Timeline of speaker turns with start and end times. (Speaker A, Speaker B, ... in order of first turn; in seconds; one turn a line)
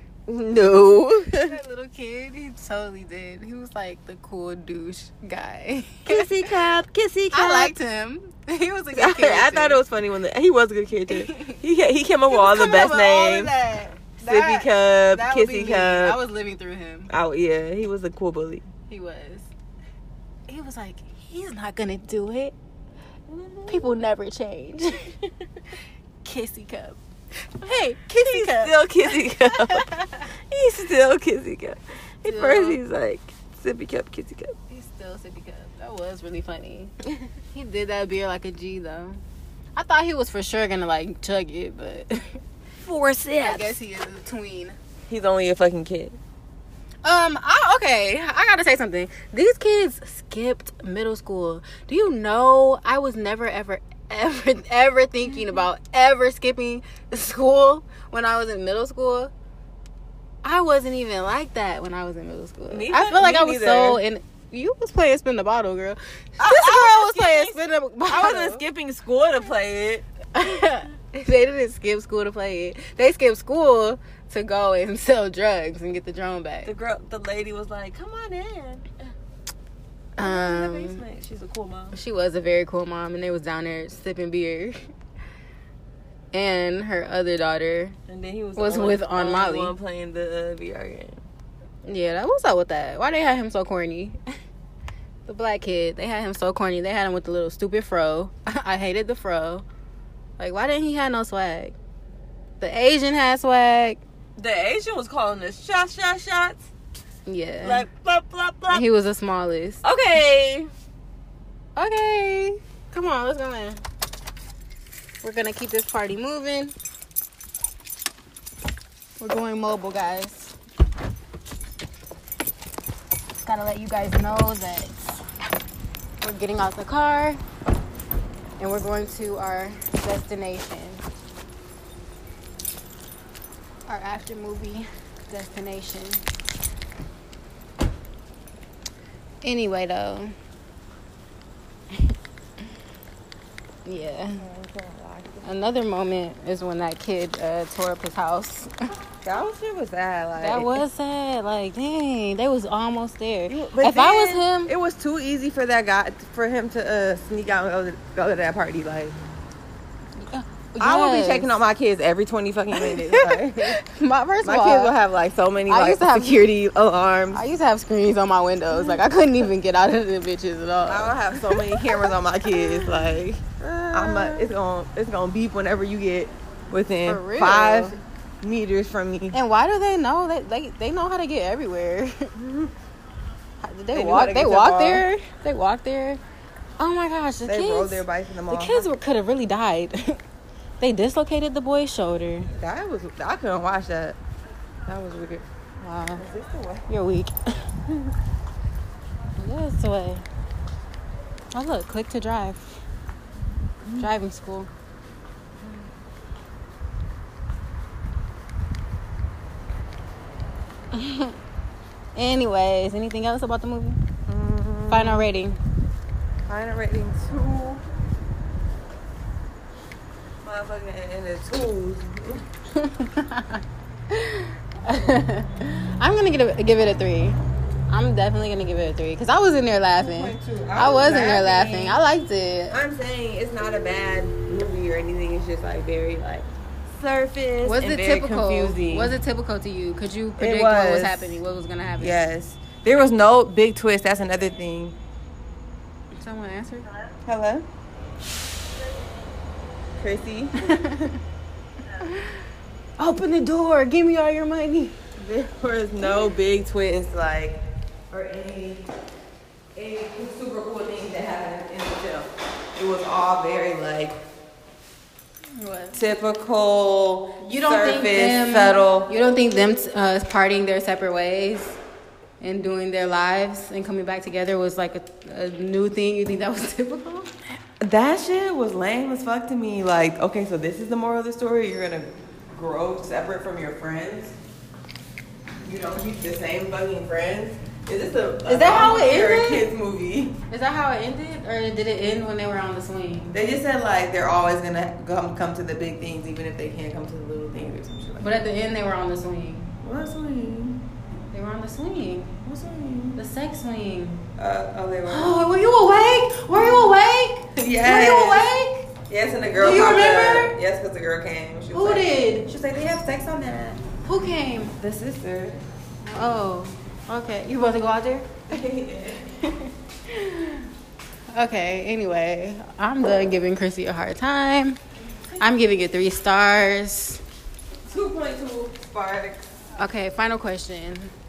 Speaker A: 0.3-1.5
Speaker B: 1.4-6.6
Speaker A: 6.0-7.7
Speaker B: 7.3-9.8
Speaker A: 8.9-13.5
Speaker B: 11.1-11.6
Speaker B: 12.3-17.1
Speaker A: 14.2-16.2
Speaker A: 17.1-18.6
Speaker B: 18.9-19.5
Speaker B: 20.5-22.5
Speaker A: 23.3-23.9
Speaker B: 23.7-25.2
Speaker B: 26.2-30.3
Speaker A: 28.1-29.9
Speaker A: 30.5-34.5
Speaker B: 32.2-32.8
Speaker B: 34.7-36.9
Speaker B: 37.5-39.2
Speaker B: 39.8-42.4
Speaker A: 42.8-43.8
Speaker B: 43.4-44.8
Speaker A: 45.1-46.2
Speaker B: 47.0-59.3
Speaker B: 60.4-68.6
Speaker A: 62.7-64.0
Speaker A: 66.4-70.0
Speaker B: 70.3-76.7
Speaker A: 76.6-78.9
Speaker B: 80.2-81.0
Speaker A: 80.2-82.0
Speaker B: 81.9-84.8
Speaker B: 86.3-88.0
Speaker A: 88.1-91.2
Speaker B: 88.5-89.7
Speaker B: 91.8-94.2
Speaker B: 95.2-99.6
Speaker B: 100.4-101.8
Speaker B: 102.6-104.0
Speaker A: 104.4-106.7
Speaker B: 107.3-107.8
Speaker A: 107.6-108.8
Speaker B: 108.7-109.8
Speaker A: 109.8-110.7
Speaker B: 111.8-113.8
Speaker B: 115.2-116.7
Speaker B: 119.2-120.5
Speaker B: 123.4-125.0
Speaker B: 126.2-127.4
Speaker B: 128.6-131.0
Speaker B: 133.9-136.2
Speaker B: 139.4-140.3
Speaker B: 143.8-144.4
Speaker A: 144.4-145.5
Speaker B: 145.4-148.7
Speaker A: 149.2-150.8
Speaker B: 150.4-154.7
Speaker A: 153.5-159.2
Speaker B: 160.2-161.5
Speaker A: 160.8-163.8
Speaker B: 162.8-164.9
Speaker A: 164.4-167.4
Speaker B: 165.7-166.5
Speaker B: 167.3-174.5
Speaker A: 168.7-169.0
Speaker A: 170.9-179.4
Speaker B: 177.1-178.0
Speaker B: 179.3-182.3
Speaker A: 182.3-182.7
Speaker B: 183.6-186.2
Speaker A: 183.9-185.0
Speaker B: 186.8-190.2
Speaker A: 187.4-188.9
Speaker B: 190.8-192.5
Speaker A: 192.6-194.2
Speaker A: 194.9-195.4
Speaker B: 195.8-196.2
Speaker A: 196.2-196.9
Speaker B: 196.9-197.5
Speaker B: 199.3-200.2
Speaker B: 201.5-202.8
Speaker A: 203.8-204.1
Speaker B: 204.0-204.7
Speaker B: 210.9-211.4
Speaker B: 212.2-214.0
Speaker A: 214.3-215.3
Speaker B: 214.9-215.6
Speaker A: 216.5-217.8
Speaker A: 220.4-222.4
Speaker B: 222.7-227.4
Speaker B: 227.9-232.8
Speaker A: 230.0-232.0
Speaker A: 232.7-239.1
Speaker B: 237.6-242.3
Speaker A: 240.4-241.4
Speaker A: 242.0-244.9
Speaker B: 246.2-246.9
Speaker A: 247.2-247.7
Speaker A: 250.0-250.8
Speaker B: 250.6-251.2
Speaker B: 252.0-252.4
Speaker B: 253.0-255.0
Speaker A: 255.2-257.6
Speaker A: 258.1-258.9
Speaker A: 259.7-264.1
Speaker B: 265.5-266.0
Speaker A: 265.9-269.1
Speaker B: 267.4-271.8
Speaker B: 272.4-277.3
Speaker A: 277.8-284.4
Speaker A: 285.6-290.4
Speaker B: 288.4-289.7
Speaker B: 290.5-293.4
Speaker A: 293.3-298.3
Speaker B: 298.2-299.7
Speaker A: 299.8-300.8
Speaker B: 301.3-302.4
Speaker A: 302.4-303.2
Speaker B: 303.1-304.2
Speaker A: 304.4-305.4
Speaker B: 305.1-308.9
Speaker A: 307.6-308.5
Speaker A: 309.1-313.8
Speaker B: 309.6-310.6
Speaker B: 311.7-312.4
Speaker B: 314.0-314.7
Speaker A: 314.8-315.6
Speaker B: 316.0-318.5
Speaker A: 318.5-319.4
Speaker B: 319.3-320.7
Speaker B: 321.3-324.8
Speaker B: 325.4-327.2
Speaker A: 327.9-329.5
Speaker B: 329.8-331.1